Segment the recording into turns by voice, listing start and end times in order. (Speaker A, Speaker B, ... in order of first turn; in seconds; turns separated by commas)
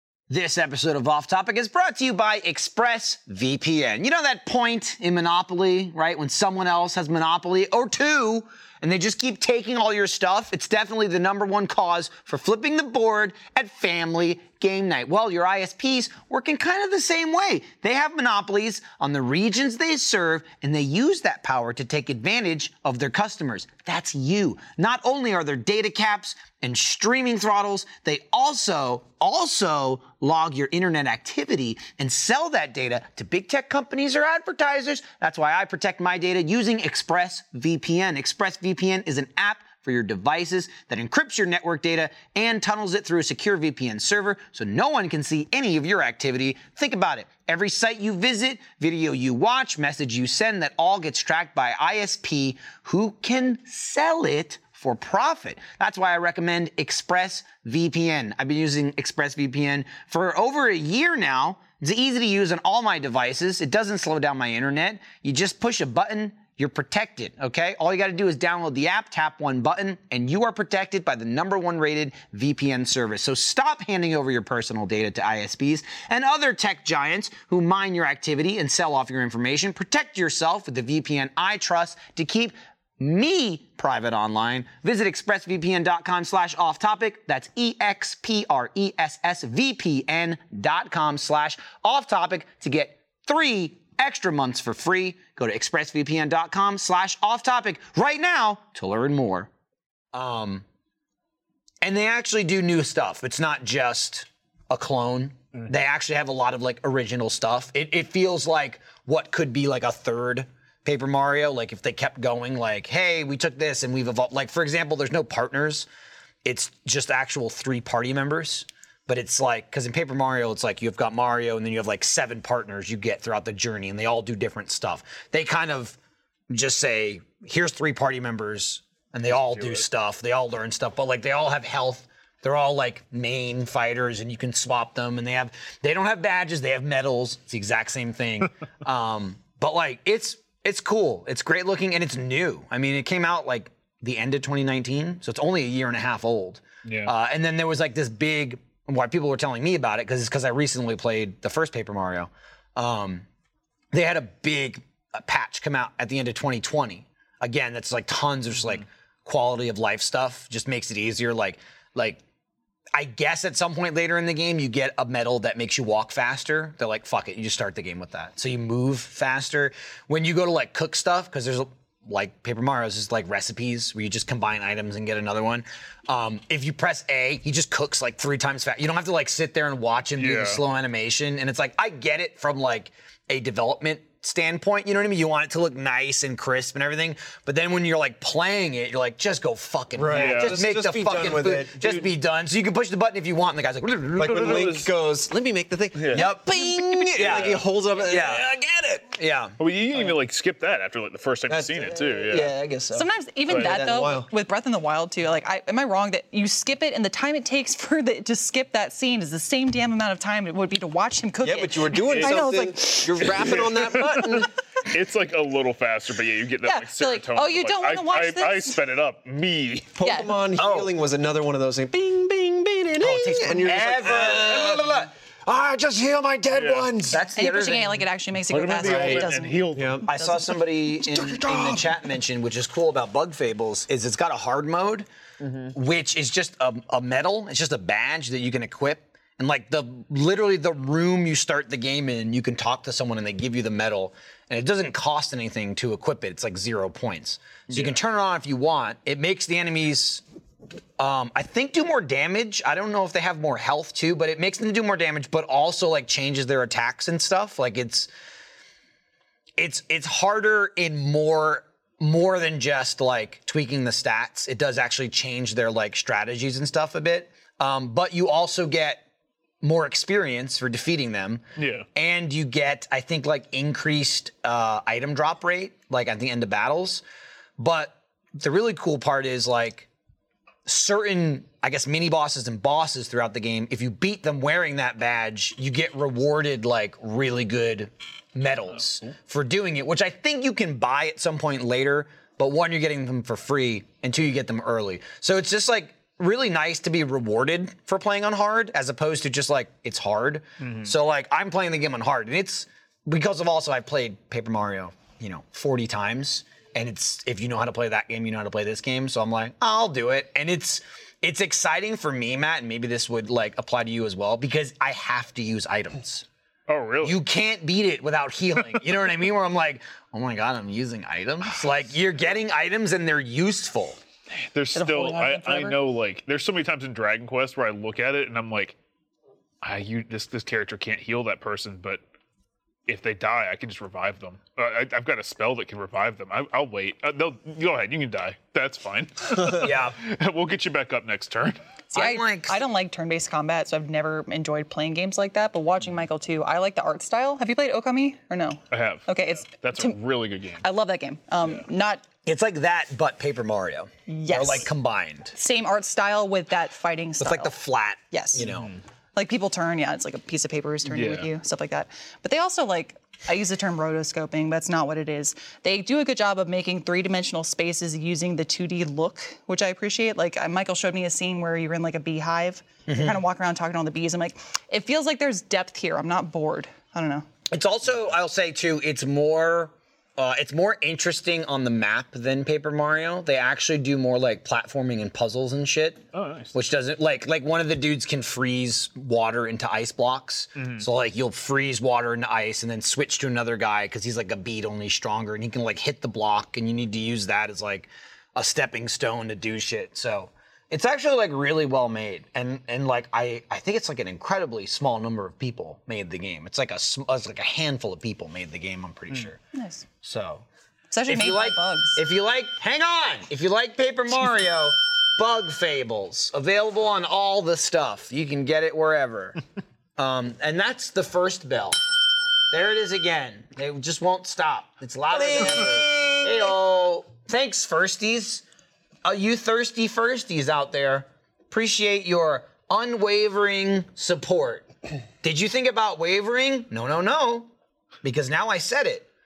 Speaker A: 0.3-99.5, Speaker A: 100.1-100.6, Speaker A: 101.8-115.9, Speaker A: 116.4-126.0, Speaker A: 126.5-153.2, Speaker B: 129.6-129.8, Speaker B: 146.9-147.1, Speaker A: 153.9-162.2, Speaker A: 162.9-194.8, Speaker B: 180.2-180.6, Speaker C: 190.0-192.1, Speaker B: 190.1-190.6, Speaker C: 194.2-199.0, Speaker B: 194.2-194.9, Speaker B: 196.0-196.3, Speaker A: 196.1-199.6, Speaker B: 199.6-202.5, Speaker C: 201.5-204.3, Speaker D: 202.9-214.1, Speaker B: 203.5-203.8, Speaker C: 211.4-214.5, Speaker B: 212.1-212.5, Speaker B: 214.3-219.9, Speaker D: 216.6-218.8, Speaker C: 219.9-227.2, Speaker D: 220.0-220.4, Speaker A: 220.6-220.9, Speaker A: 223.0-225.1, Speaker B: 226.5-226.9, Speaker A: 227.0-228.1, Speaker D: 227.3-230.5, Speaker B: 228.5-230.1, Speaker C: 228.8-230.1, Speaker A: 228.8-229.1, Speaker A: 230.1-235.1, Speaker C: 231.0-231.9, Speaker C: 235.4-235.7, Speaker A: 235.7-250.2, Speaker B: 247.7-248.0, Speaker A: 251.0-258.1, Speaker A: 259.6-269.0, Speaker A: 269.6-271.4, Speaker B: 271.6-271.9, Speaker A: 271.9-277.0, Speaker A: 277.6-279.9, Speaker A: 280.7-316.3, Speaker B: 300.6-300.9, Speaker B: 316.7-317.2, Speaker A: 317.0-324.0, Speaker B: 324.3-328.8, Speaker D: 324.7-325.8, Speaker B: 329.6-332.0, Speaker B: 332.9-341.6, Speaker A: 339.4-340.0, Speaker A: 341.9-342.6, Speaker D: 341.9-350.0, Speaker B: 348.7-350.6, Speaker D: 350.6-352.0, Speaker A: 352.3-355.3, Speaker D: 354.1-354.7, Speaker D: 355.3-357.5, Speaker A: 357.2-358.7, Speaker D: 358.1-358.4, Speaker B: 358.4-358.8, Speaker D: 359.1-377.3, Speaker B: 360.9-361.3, Speaker A: 372.9-373.2, Speaker A: 377.5-409.4, Speaker B: 386.1-386.5, Speaker B: 390.6-390.9, Speaker D: 409.5-409.9, Speaker A: 410.0-410.4, Speaker D: 410.9-412.0, Speaker A: 411.1-419.4, Speaker A: 420.0-421.8, Speaker A: 422.5-428.4, Speaker C: 425.1-426.6, Speaker A: 429.0-434.7, Speaker A: 435.2-437.5, Speaker A: 438.0-439.1